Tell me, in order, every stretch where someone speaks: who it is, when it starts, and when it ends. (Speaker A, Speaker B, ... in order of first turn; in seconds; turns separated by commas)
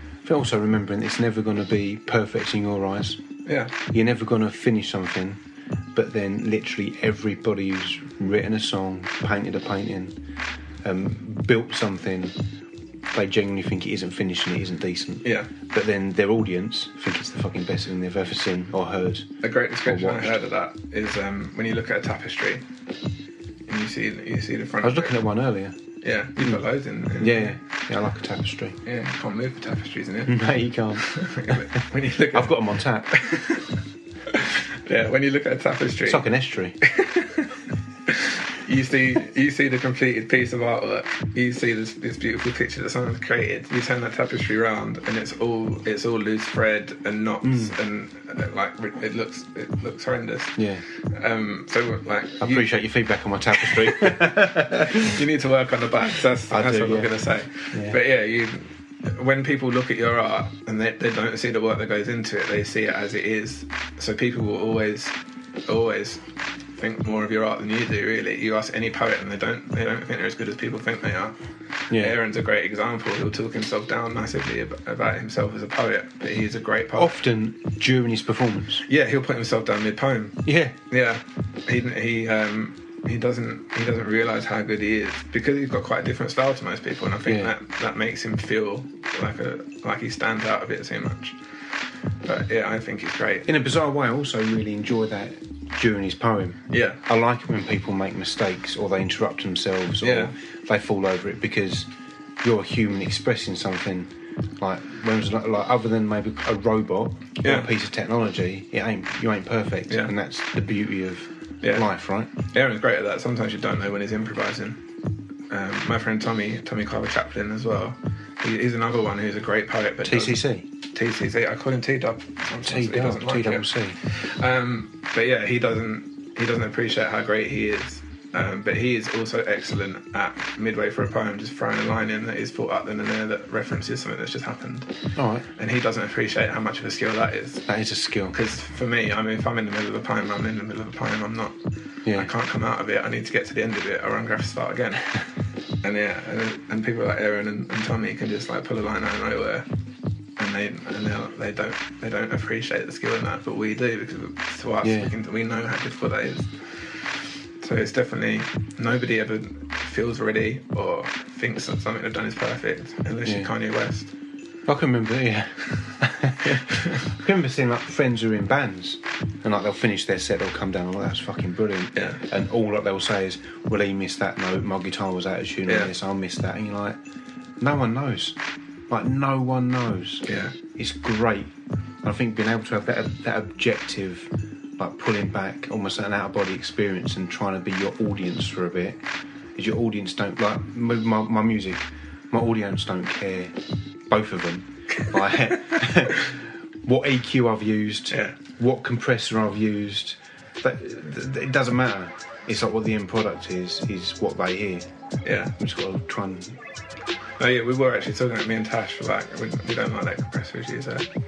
Speaker A: 0.2-3.2, Speaker B: 3.5-3.7, Speaker A: 3.9-5.4, Speaker A: 5.9-10.2, Speaker A: 10.8-12.4, Speaker A: 13.1-19.3, Speaker B: 15.2-15.5, Speaker B: 19.4-22.6, Speaker A: 19.8-20.4, Speaker B: 23.7-25.1, Speaker A: 24.8-25.8, Speaker B: 26.0-27.6, Speaker A: 26.4-28.8, Speaker B: 28.8-30.4, Speaker A: 30.2-33.2, Speaker B: 30.9-33.7, Speaker B: 34.3-36.3, Speaker A: 36.0-36.8, Speaker B: 36.8-52.7, Speaker A: 47.4-47.7, Speaker A: 50.6-50.8, Speaker A: 52.4-55.1, Speaker B: 53.6-66.2, Speaker A: 56.5-58.0, Speaker B: 66.8-71.3, Speaker A: 71.9-72.2, Speaker B: 71.9-77.2, Speaker A: 76.9-78.8, Speaker B: 78.8-91.4, Speaker A: 80.4-80.8, Speaker A: 87.3-87.5, Speaker B: 92.2-93.5, Speaker A: 93.5-101.9, Speaker B: 96.7-97.0, Speaker B: 100.0-100.3, Speaker A: 102.4-112.3, Speaker B: 107.4-107.7, Speaker B: 112.4-114.8, Speaker B: 115.5-134.9, Speaker A: 120.0-120.7, Speaker A: 122.6-124.0, Speaker A: 135.2-135.5, Speaker B: 135.6-137.7, Speaker A: 137.7-138.3, Speaker B: 138.3-141.6, Speaker A: 142.0-142.3, Speaker B: 142.1-145.1, Speaker B: 145.8-149.7, Speaker B: 150.4-164.1, Speaker A: 154.8-155.1, Speaker A: 163.2-163.5, Speaker A: 164.7-177.0, Speaker B: 166.7-167.0, Speaker B: 171.9-172.2, Speaker A: 177.6-189.0, Speaker B: 180.2-180.6, Speaker A: 189.6-193.6, Speaker A: 194.1-204.9, Speaker B: 198.1-198.4, Speaker B: 205.2-205.5, Speaker A: 205.5-206.6, Speaker B: 207.4-211.1